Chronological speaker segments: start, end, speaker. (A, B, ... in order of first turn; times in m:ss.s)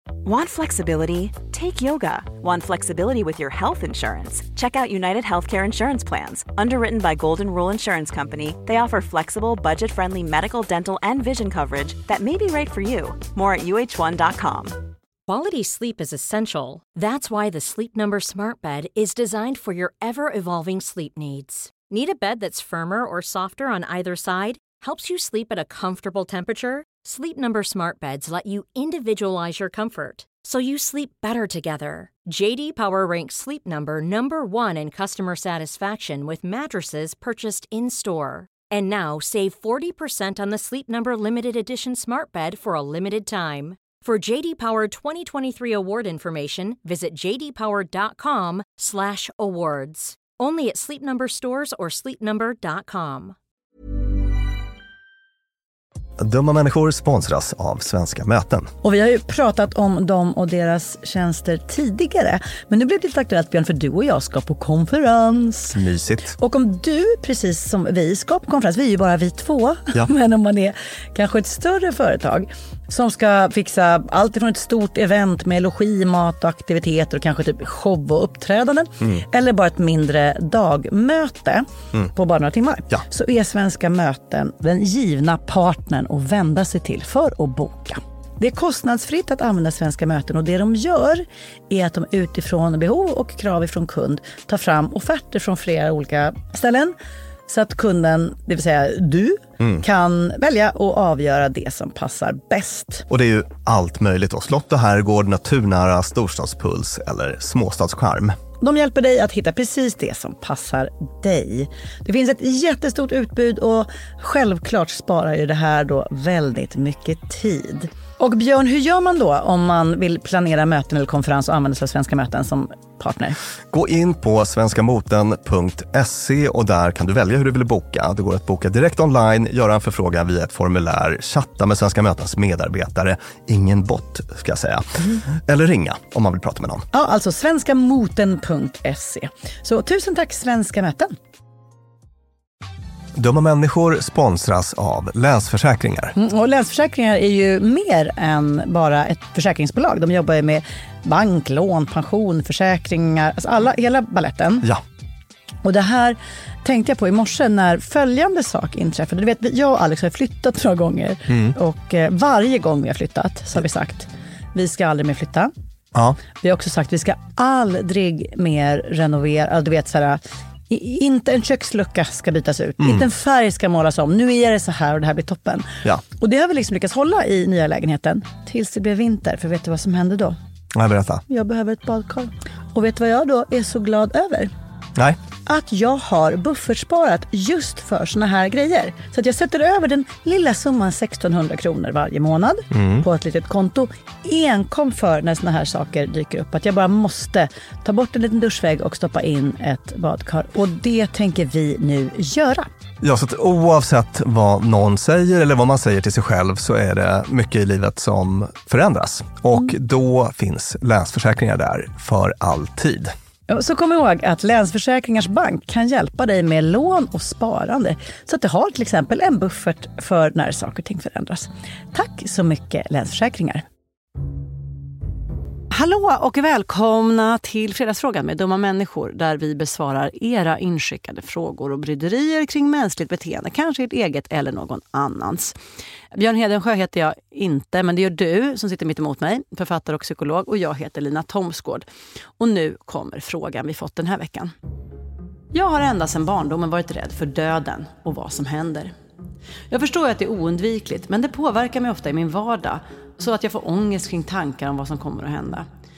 0:00.2-0:14.8 A
0:15.3-0:53.4 B
0:56.2-0:58.7 C
0:58.8-1:05.8 D
1:05.7-1:06.4 C
1:06.4-1:36.9 D
1:37.5-1:43.1 D
1:43.1-1:48.4 C
1:48.6-2:03.4 D
2:03.7-2:16.9 C
2:16.9-2:21.2 D
2:23.2-2:26.1 C
2:26.2-2:34.7 D
2:35.6-2:45.5 D
2:41.3-2:41.6 C
2:46.4-3:00.4 D
2:52.8-2:53.1 C
3:00.7-3:01.2 C
3:01.3-3:04.5 D
3:05.5-3:22.7 D
3:12.7-3:13.0 C
3:23.0-3:33.1 C
3:33.5-3:43.6 D
3:45.7-3:55.6 E
3:56.1-4:01.9 E
4:02.4-4:04.5 E
4:05.5-4:08.9 E
4:09.7-4:15.7 E